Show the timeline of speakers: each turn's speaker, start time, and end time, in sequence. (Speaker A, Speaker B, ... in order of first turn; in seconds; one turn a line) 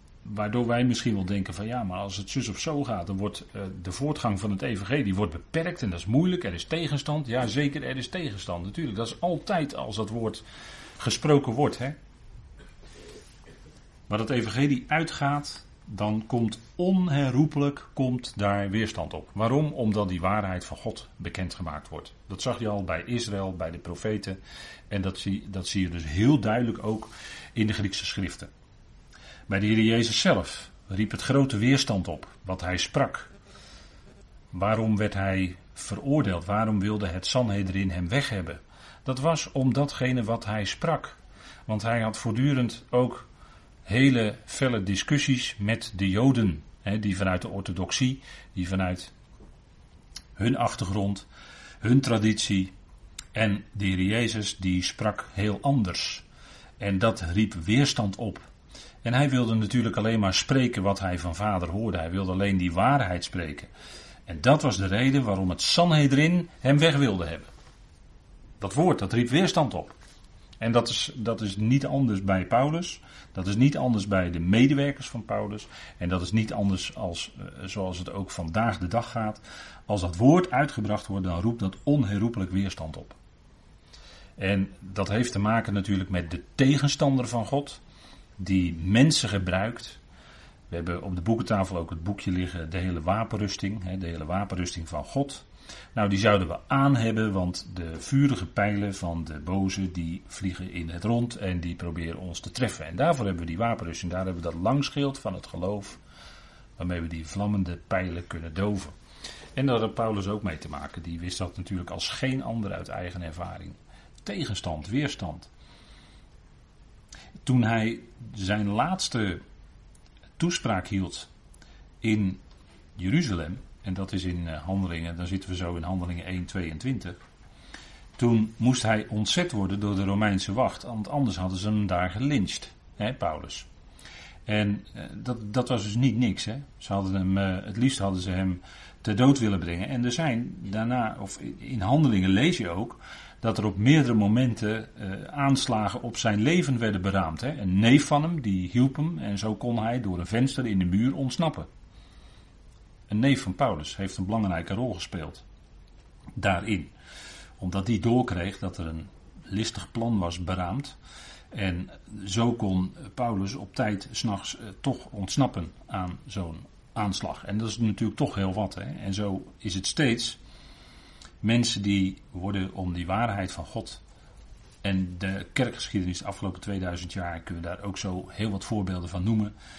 Speaker A: 0.2-10.4
Speaker A: 11.0-12.0
Speaker A: 14.1-24.4
Speaker A: 24.9-28.5
Speaker A: 29.5-33.3
Speaker A: 34.5-43.3
Speaker A: 43.9-49.1
Speaker A: 50.4-51.3
Speaker A: 51.8-52.7
Speaker A: 53.3-56.2
Speaker A: 56.8-58.5
Speaker A: 59.0-63.7
Speaker A: 64.3-67.5
Speaker A: 68.6-70.0
Speaker A: 70.6-83.2
Speaker A: 84.4-87.8
Speaker A: 88.4-90.0
Speaker A: 90.7-106.0
Speaker A: 106.8-109.0
Speaker A: 109.5-115.5
Speaker A: 117.5-119.4
Speaker A: 120.4-121.3
Speaker A: 122.0-122.4
Speaker A: 123.0-127.2
Speaker A: 128.2-133.7
Speaker A: 134.5-151.7
Speaker A: 153.1-155.4
Speaker A: 156.4-156.9
Speaker A: 157.6-161.0
Speaker A: 161.5-170.4
Speaker A: 171.4-174.0
Speaker A: 174.8-179.5